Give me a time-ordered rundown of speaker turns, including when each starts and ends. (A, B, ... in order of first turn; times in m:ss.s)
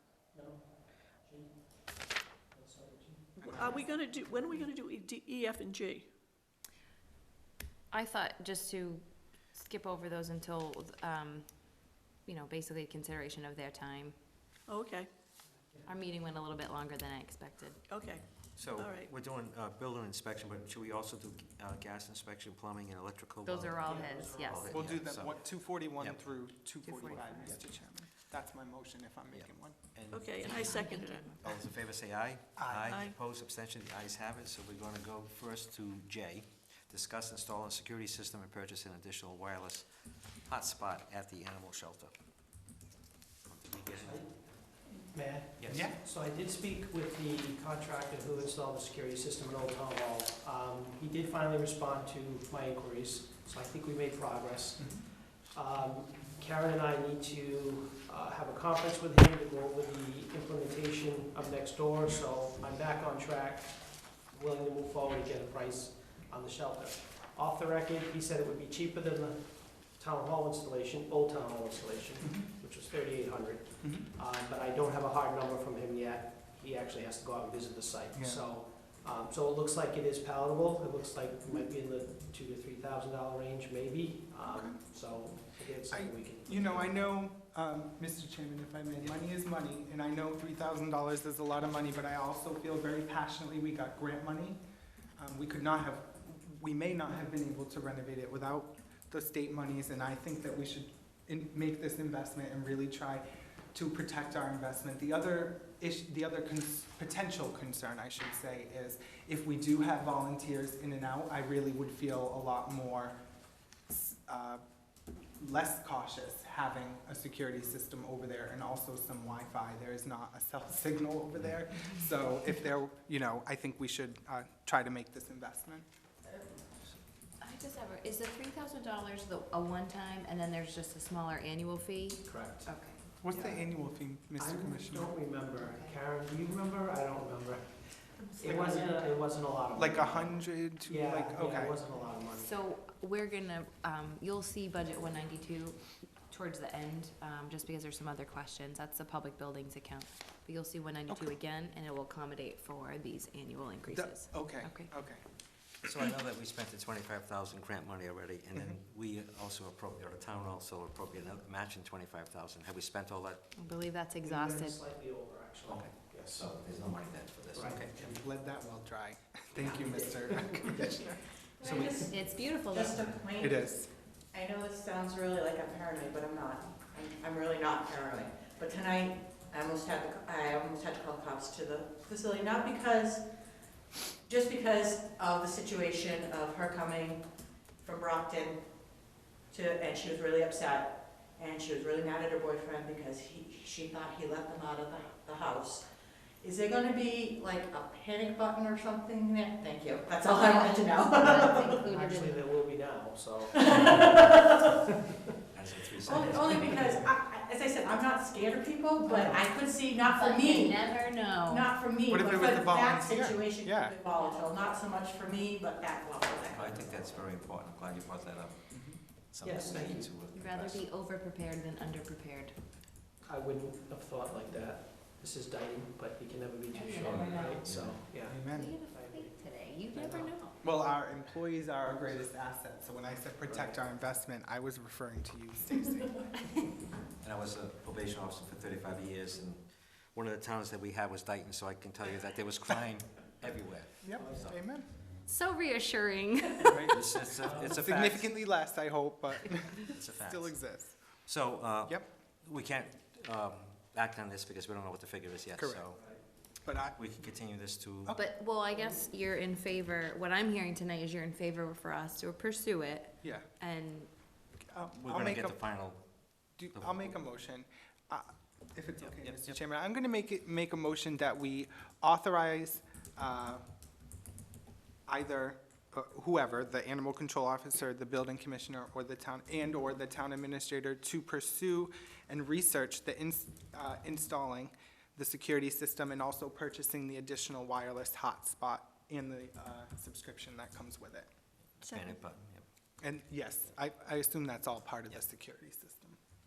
0:00.3-0:01.8 A
0:02.5-0:03.8 A
0:03.4-0:06.1 B
0:03.4-0:04.0 C
0:07.9-0:14.2 D
0:14.7-0:15.1 B
0:15.8-0:17.8 D
0:17.9-0:18.2 B
0:18.5-0:23.9 E
0:18.8-0:19.1 B
0:23.4-0:24.8 D
0:23.8-0:24.6 A
0:24.4-0:26.4 E
0:24.7-0:29.8 C
0:26.8-0:27.6 D
0:29.3-0:30.8 E
0:30.1-0:31.6 B
0:30.6-0:31.5 D
0:31.4-0:42.1 E
0:32.6-0:33.0 C
0:32.8-0:33.1 B
0:43.4-0:44.5 E
0:44.0-1:27.0 A
0:45.6-0:45.9 E
0:45.7-0:46.0 C
0:54.8-0:55.0 C
1:12.2-1:12.5 C
1:13.8-1:14.1 C
1:18.1-1:18.4 C
1:24.4-1:24.8 C
1:25.9-1:34.6 C
1:35.2-1:53.2 C
1:53.9-1:54.6 C
1:55.4-2:05.8 C
2:07.4-2:13.0 D
2:12.2-2:12.7 A
2:13.2-2:15.1 C
2:13.3-2:13.8 A
2:14.4-2:22.5 A
2:15.6-2:15.9 D
2:18.4-2:19.0 C
2:19.7-2:21.8 C
2:22.3-2:34.9 D
2:33.9-2:35.2 C
2:35.8-2:43.5 E
2:43.5-2:44.8 D
2:44.2-2:46.4 A
2:45.6-2:48.0 E
2:47.5-2:48.2 A
2:47.9-2:52.0 C
2:49.6-2:50.9 A
2:51.6-2:52.1 F
2:51.7-2:53.0 D
2:52.7-2:53.7 F
2:53.4-2:53.9 C
2:54.3-3:03.2 F
3:04.2-3:07.2 F
3:07.8-3:08.6 F
3:09.5-3:15.9 F
3:16.4-3:21.8 F
3:20.4-3:22.4 D
3:21.2-3:25.2 A
3:23.6-3:24.6 F
3:25.5-3:26.9 E
3:26.0-3:37.0 F
3:29.1-3:29.4 C
3:30.1-3:31.7 D
3:32.1-3:33.9 C
3:36.5-3:40.9 E
3:38.7-3:39.0 C
3:39.4-3:40.0 A
3:40.3-3:42.6 D
3:43.2-3:48.4 A
3:46.7-3:47.7 D
3:47.0-3:48.1 E
3:48.2-3:48.8 C
3:48.4-3:50.6 D
3:48.9-3:50.4 A
3:50.6-3:56.5 C
3:51.9-3:52.2 A
3:53.4-3:53.8 A
3:57.2-4:04.6 E
4:04.0-4:04.9 C
4:04.2-4:04.5 A
4:05.2-4:06.9 D
4:06.7-4:07.0 C
4:06.9-4:08.3 E
4:07.4-4:07.8 A
4:07.7-4:11.0 C
4:09.9-4:16.2 E
4:15.6-4:15.9 C
4:16.6-4:17.0 C
4:17.0-4:18.1 E
4:18.1-4:24.1 D
4:24.7-4:25.6 C
4:24.9-4:26.0 E
4:26.6-4:33.6 C
4:26.7-4:27.2 E
4:29.0-4:29.6 E
4:35.1-4:51.3 C
4:51.8-4:52.6 E
4:51.8-4:52.2 B
4:53.0-4:56.2 C